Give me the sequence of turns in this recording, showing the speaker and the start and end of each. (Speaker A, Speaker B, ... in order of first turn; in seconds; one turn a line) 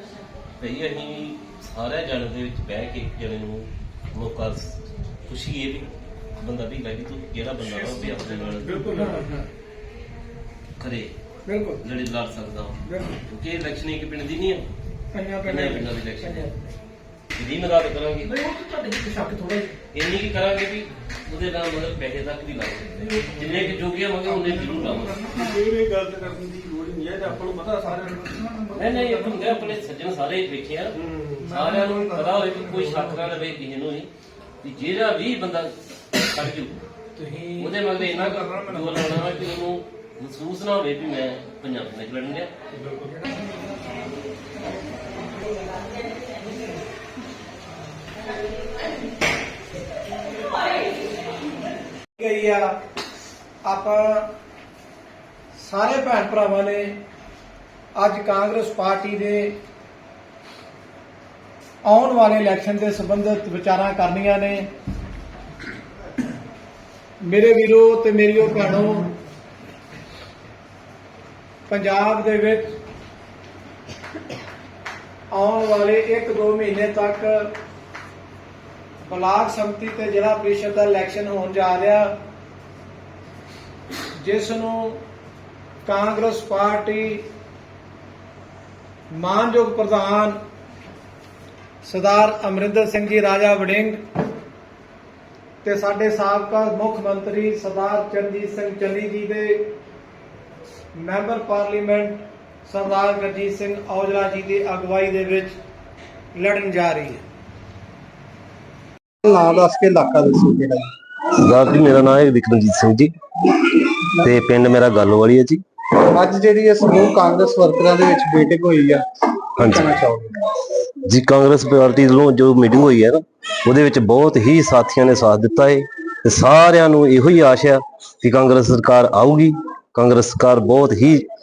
Speaker A: 0.6-9.1
Speaker B: 8.9-9.4
Speaker A: 10.8-11.1
Speaker B: 11.5-11.8
Speaker A: 11.8-14.7
Speaker B: 12.9-13.2
Speaker B: 15.1-16.6
Speaker A: 15.4-16.5
Speaker A: 17.3-18.4
Speaker B: 18.3-19.7
Speaker A: 19.9-25.6
Speaker C: 25.7-28.0
Speaker A: 28.6-34.1
Speaker A: 34.6-42.5
Speaker B: 52.2-52.7
Speaker B: 53.6-54.3
Speaker B: 55.6-57.0
Speaker B: 58.0-59.6
Speaker B: 61.8-64.7
Speaker B: 67.2-69.1
Speaker B: 71.7-72.7
Speaker B: 75.3-77.5
Speaker B: 79.1-82.1
Speaker B: 84.2-85.0
Speaker B: 85.8-87.2
Speaker B: 89.1-90.4
Speaker B: 91.8-94.0
Speaker B: 95.6-99.7
Speaker B: 101.0-105.5
Speaker B: 106.3-107.2
Speaker D: 109.2-110.9
Speaker A: 111.3-113.1
Speaker A: 113.7-115.6
Speaker D: 116.1-120.5
Speaker A: 119.6-119.9
Speaker A: 121.1-131.2